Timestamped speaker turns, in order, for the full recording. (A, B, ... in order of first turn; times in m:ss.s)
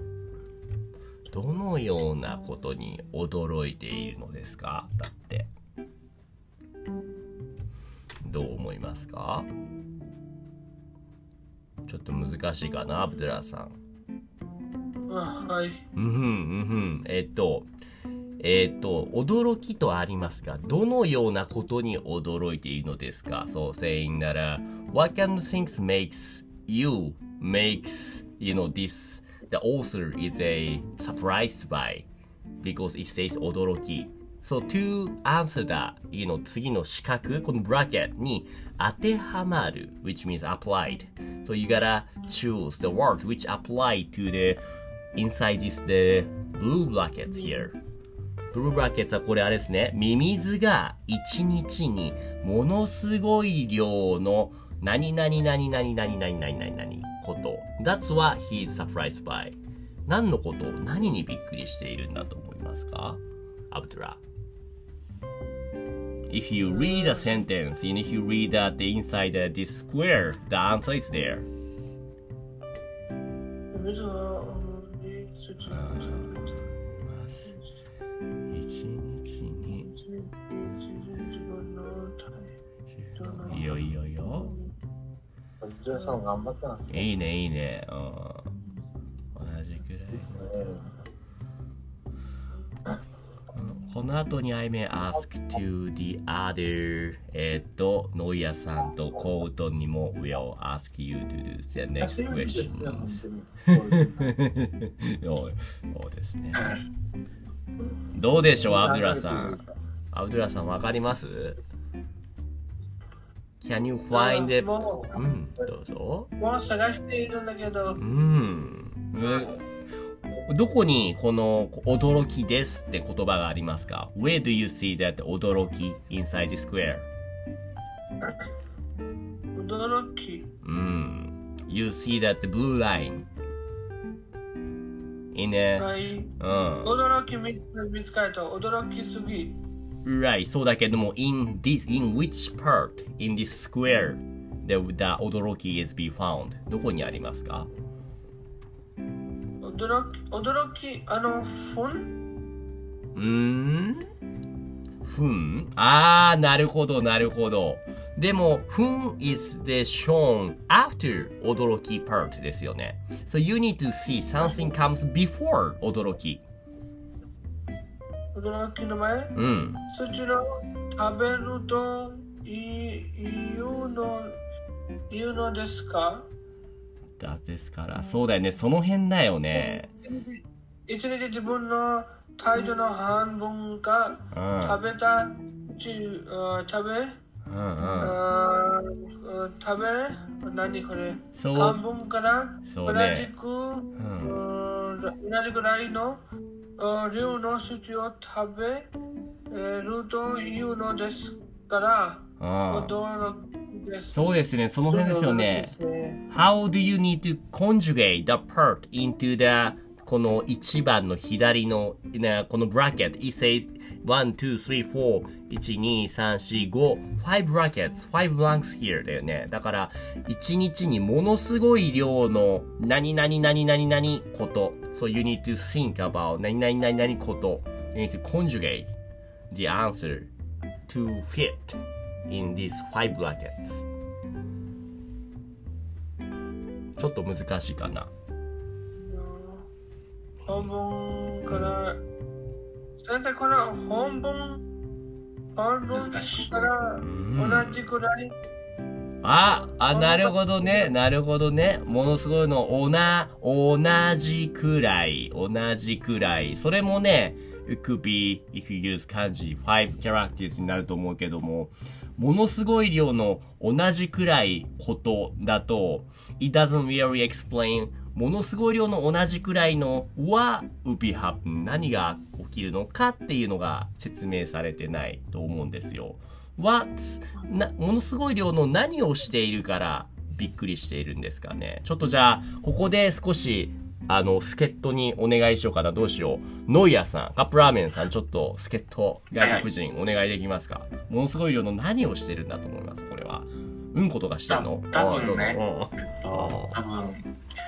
0:01.3-0:05.5 A
0:08.2-0:09.5 A
0:11.8-0:13.8 A
0:15.1-0:15.8 B
0:15.9-0:17.7 A
0:18.4-0:32.1 A
0:32.6-0:44.6 A
0:45.1-0:47.7 A
0:47.3-0:47.7 B
0:48.5-1:04.2 A
1:06.3-1:11.5 A
1:06.6-1:07.4 B
1:13.7-1:16.6 B
1:15.7-1:17.5 A
1:18.5-1:19.9 A
1:19.7-1:22.5 B
1:22.9-1:24.5 A
1:23.1-1:24.6 B
1:25.6-1:27.1 C
1:26.9-1:28.5 A
1:29.3-1:30.6 A
1:30.2-1:30.9 C
1:33.5-1:43.2 A
1:42.0-1:44.4 C
1:43.7-1:46.7 A
1:46.5-1:46.8 D
1:48.1-1:49.6 A
1:48.6-1:49.7 C
1:50.1-1:51.6 A
1:53.6-1:56.3 A
1:54.1-1:55.2 B
1:56.4-1:58.0 B
1:58.0-1:59.5 A
1:59.3-1:59.6 B
2:00.5-2:07.1 A
2:09.5-2:10.5 B
2:10.6-2:13.3 A
2:15.3-2:16.9 A
2:15.8-2:16.3 B
2:16.8-2:19.6 B
2:20.0-2:27.7 A
2:29.6-2:32.1 B
2:33.1-2:34.1 A
2:35.0-2:46.4 A
2:48.3-2:49.4 B
2:49.3-2:49.8 A
2:49.9-2:54.4 B
2:55.1-2:56.3 B
2:57.2-2:59.9 A
2:59.5-3:07.2 B
3:04.3-3:04.8 A
3:07.4-3:08.2 A
3:08.0-3:16.2 B
3:11.4-3:11.8 A
3:12.7-3:13.3 A
3:14.0-3:14.4 A
3:16.8-3:18.9 B
3:19.5-3:24.3 B
3:22.4-3:23.0 A
3:24.1-3:25.7 A
3:24.9-3:26.2 C
3:26.3-3:48.9 A
3:49.5-3:50.3 A
3:50.9-3:53.8 A
3:57.0-3:58.1 A
3:59.0-3:59.7 B
4:00.4-4:00.7 A
4:00.4-4:02.0 B
4:01.5-4:01.8 A
4:03.0-4:04.6 B
4:05.5-4:08.3 B
4:05.9-4:06.7 D
4:07.0-4:07.8 A
4:09.2-4:56.8 A
4:09.5-4:10.9 B
4:49.4-4:49.7 D
4:54.5-4:57.3 D